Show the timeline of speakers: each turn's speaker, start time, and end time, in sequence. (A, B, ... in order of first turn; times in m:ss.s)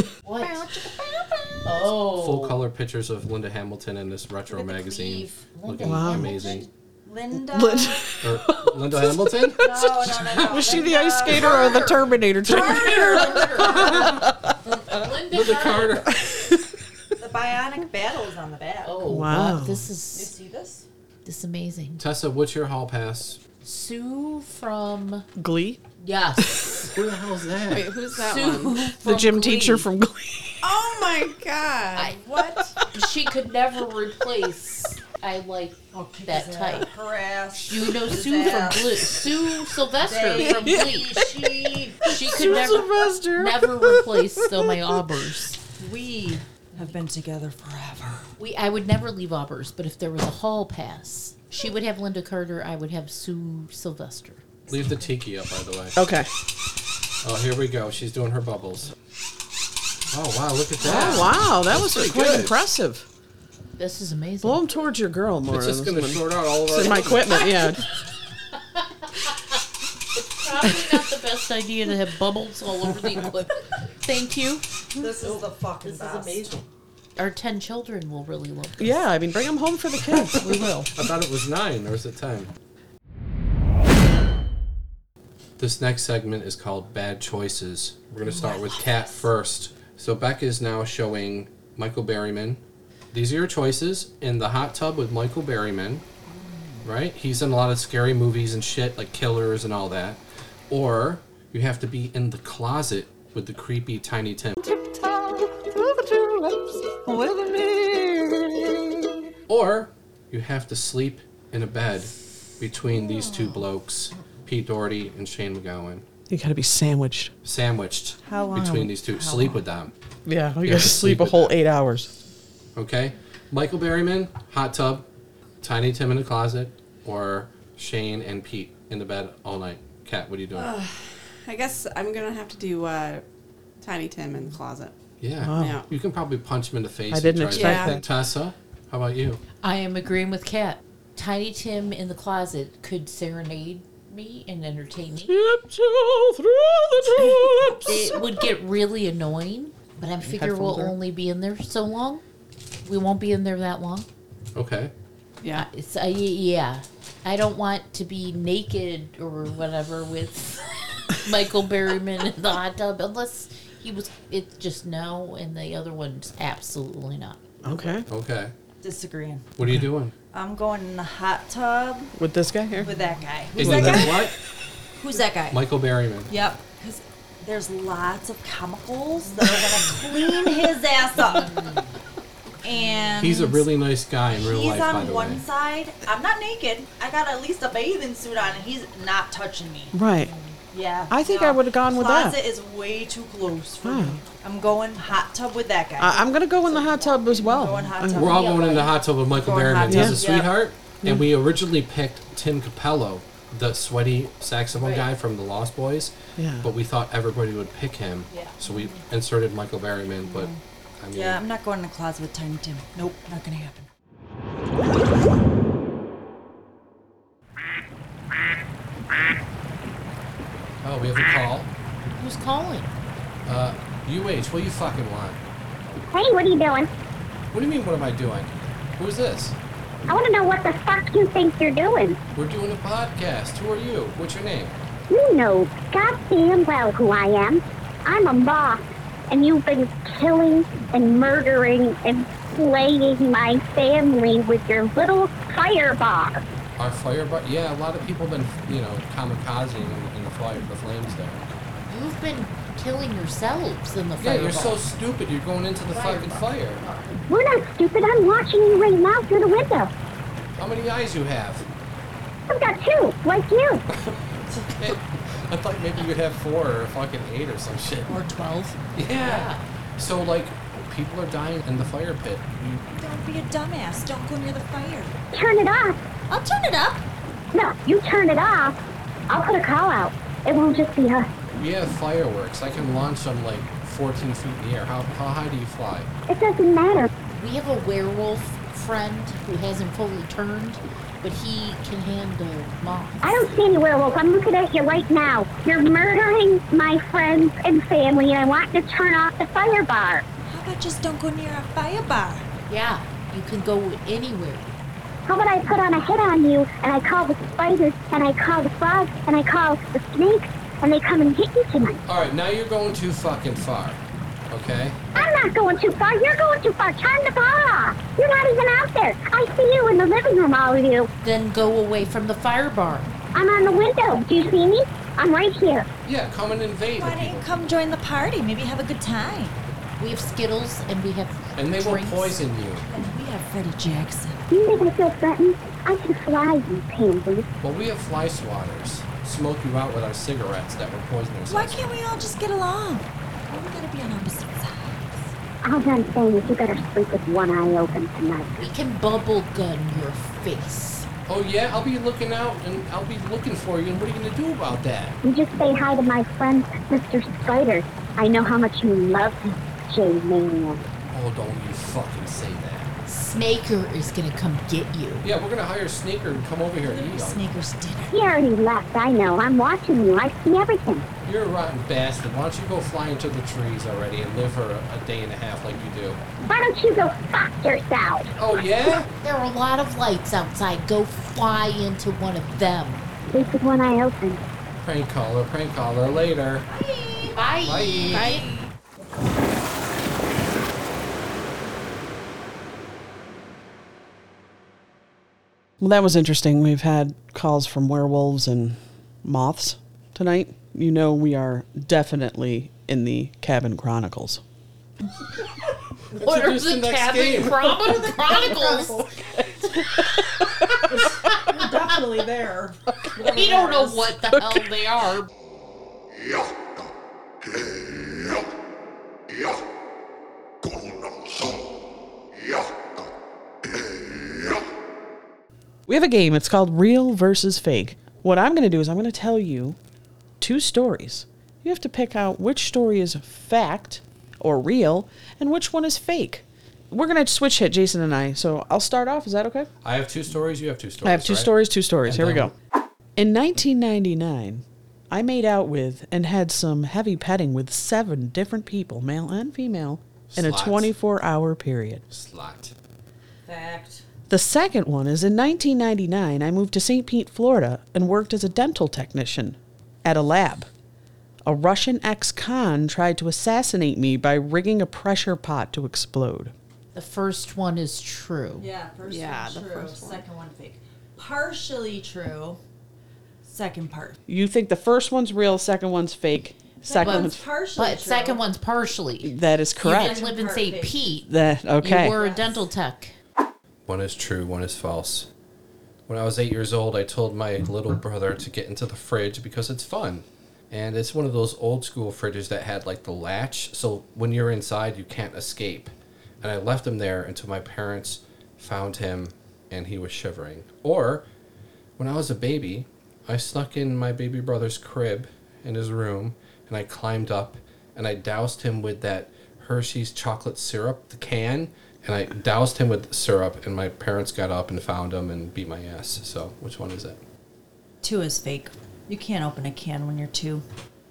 0:00.2-0:00.7 A
0:00.3-0:01.8 B
0:01.6-0:02.6 A
0:02.0-0:06.7 C
0:04.5-0:06.6 A
0:05.8-0:06.3 D
0:06.2-0:08.2 B
0:07.4-0:14.4 D
0:08.2-0:10.6 C
0:09.6-0:11.9 B
0:09.6-0:10.1 A
0:10.7-0:16.1 A
0:12.4-0:14.2 B
0:15.3-0:16.2 C
0:16.2-0:16.6 D
0:17.2-0:19.0 B
0:18.8-0:20.3 A
0:19.1-0:19.8 D
0:20.1-0:20.9 B
0:21.2-0:22.0 A
0:22.0-0:23.4 C
0:23.6-0:25.3 A
0:25.4-0:25.8 D
0:26.0-0:26.9 A
0:26.4-0:26.9 D
0:26.9-0:27.9 C
0:27.7-0:28.9 E
0:28.1-0:29.9 A
0:29.0-0:30.6 D
0:30.6-0:32.7 E
0:32.9-0:36.9 A
0:35.9-0:39.0 B
0:37.6-0:45.6 A
0:40.0-0:42.5 B
0:40.4-0:41.4 D
0:42.0-0:45.0 D
0:45.8-0:48.3 B
0:48.4-0:54.4 A
0:54.7-0:56.0 C
0:56.0-0:56.3 D
0:57.2-0:58.9 C
1:00.1-1:02.6 C
1:00.8-1:03.0 D
1:03.8-1:04.6 A
1:04.4-1:07.9 D
1:05.5-1:07.4 C
1:07.4-1:07.8 A
1:08.5-1:09.4 A
1:10.1-1:14.6 A
1:15.0-1:16.6 B
1:15.2-1:16.6 A
1:17.2-1:19.1 A
1:18.8-1:20.6 D
1:21.0-1:22.5 C
1:25.6-1:32.6 C
1:28.2-1:29.3 B
1:33.1-1:36.0 C
1:36.8-1:44.6 C
1:44.7-1:48.8 B
1:49.5-1:56.0 C
1:56.3-1:57.3 D
1:57.4-1:59.9 C
1:58.2-1:59.6 B
2:00.2-2:02.1 D
2:00.6-2:01.6 C
2:02.8-2:05.0 C
2:05.6-2:10.7 C
2:10.5-2:13.2 E
2:13.8-2:14.9 E
2:15.2-2:19.4 C
2:15.4-2:15.8 D
2:15.6-2:15.9 E
2:17.1-2:18.0 D
2:17.5-2:18.0 E
2:19.6-2:25.4 A
2:25.3-2:28.2 D
2:27.8-2:32.2 A
2:30.2-2:31.0 D
2:32.8-2:34.1 A
2:34.5-2:34.9 C
2:35.5-2:47.4 A
2:47.6-2:48.0 D
2:48.1-2:48.5 C
2:48.8-2:49.5 B
2:49.6-2:50.1 C
2:50.3-2:52.1 B
2:52.2-2:52.9 D
2:52.8-2:54.3 B
2:53.6-2:54.3 C
2:55.0-2:55.6 B
2:55.5-2:56.3 C
2:56.3-3:01.8 B
3:01.2-3:01.8 A
3:02.6-3:03.7 B
3:03.2-3:05.4 C
3:04.3-3:09.9 B
3:09.9-3:10.3 D
3:10.2-3:10.5 A
3:10.7-3:20.4 B
3:11.1-3:12.4 D
3:13.8-3:14.2 D
3:16.0-3:18.2 D
3:18.1-3:31.4 C
3:18.2-3:18.9 A
3:19.9-3:20.2 D
3:20.1-3:20.5 A
3:21.0-3:21.3 D
3:24.7-3:25.1 A
3:26.4-3:26.7 D
3:28.3-3:28.6 A
3:30.2-3:30.6 B
3:31.1-3:33.9 B
3:40.8-3:41.7 C
3:42.2-3:42.9 A
3:43.4-3:45.4 C
3:46.1-3:46.9 F
3:47.5-3:49.6 C
3:50.1-3:52.2 F
3:52.3-3:54.8 C
3:55.1-4:06.4 F
4:06.8-4:11.4 C
4:11.9-4:14.8 A
4:14.2-4:16.8 C
4:15.9-4:17.2 A
4:17.3-4:19.9 F
4:20.6-4:21.6 C
4:22.5-4:23.8 F
4:23.9-4:24.2 C
4:24.7-4:28.1 C
4:28.1-4:28.8 B
4:29.0-4:32.8 C
4:29.2-4:29.6 A
4:32.9-4:35.2 B
4:35.3-4:36.0 F
4:36.3-4:37.0 B
4:37.5-4:38.8 F
4:39.3-4:41.3 F
4:41.5-4:46.1 C
4:46.3-4:47.1 F
4:47.3-4:53.5 A
4:53.2-5:00.2 F
5:00.5-5:02.5 B
5:02.7-5:04.8 A
5:05.2-5:12.0 F
5:12.1-5:15.0 C
5:15.1-5:21.1 F
5:21.2-5:23.1 A
5:23.3-5:25.9 F
5:26.0-5:27.5 C
5:26.9-5:29.6 B
5:30.0-5:32.4 A
5:31.6-5:32.8 C
5:32.9-5:34.4 B
5:34.5-5:37.4 F
5:37.6-5:41.9 C
5:41.5-5:45.3 B
5:45.6-5:48.5 F
5:48.6-5:51.1 A
5:51.3-5:55.2 C
5:55.2-6:00.8 F
6:01.1-6:02.9 C
6:03.0-6:05.2 A
6:05.2-6:07.5 C
6:06.8-6:08.2 B
6:08.1-6:11.0 F
6:11.2-6:16.2 C
6:16.4-6:18.3 F
6:18.4-6:19.1 C
6:19.2-6:23.1 A
6:23.3-6:24.4 F
6:24.8-6:26.6 C
6:26.7-6:27.6 B
6:27.3-6:28.4 A
6:27.6-6:28.3 C
6:28.1-6:28.5 E
6:28.2-6:28.7 B
6:35.8-6:44.4 D
6:46.1-6:49.1 A
6:46.2-6:47.9 C
6:48.1-6:49.3 B
6:50.8-6:54.1 B
6:53.2-6:55.3 A
6:54.3-6:54.6 D
7:05.9-7:09.8 D
7:10.4-7:19.7 D
7:19.8-7:21.5 C
7:21.0-7:22.5 D
7:22.0-7:22.5 C
7:23.2-7:32.0 D
7:30.3-7:30.9 C
7:32.1-7:32.7 C
7:33.4-7:34.0 B
7:34.3-7:40.7 D
7:41.4-7:46.5 D
7:46.9-7:48.7 A
7:48.6-7:52.6 B
7:49.0-7:50.2 E
7:53.4-7:54.2 B
7:54.3-7:57.4 D
7:56.8-7:58.4 B
7:57.0-8:01.3 A
7:59.2-8:00.2 D
7:59.9-8:01.0 B
8:01.3-8:02.2 D
8:01.8-8:03.1 A
8:02.0-8:02.6 B
8:03.8-8:05.3 C
8:06.1-8:21.2 C
8:22.0-8:37.2 C
8:38.0-8:40.6 B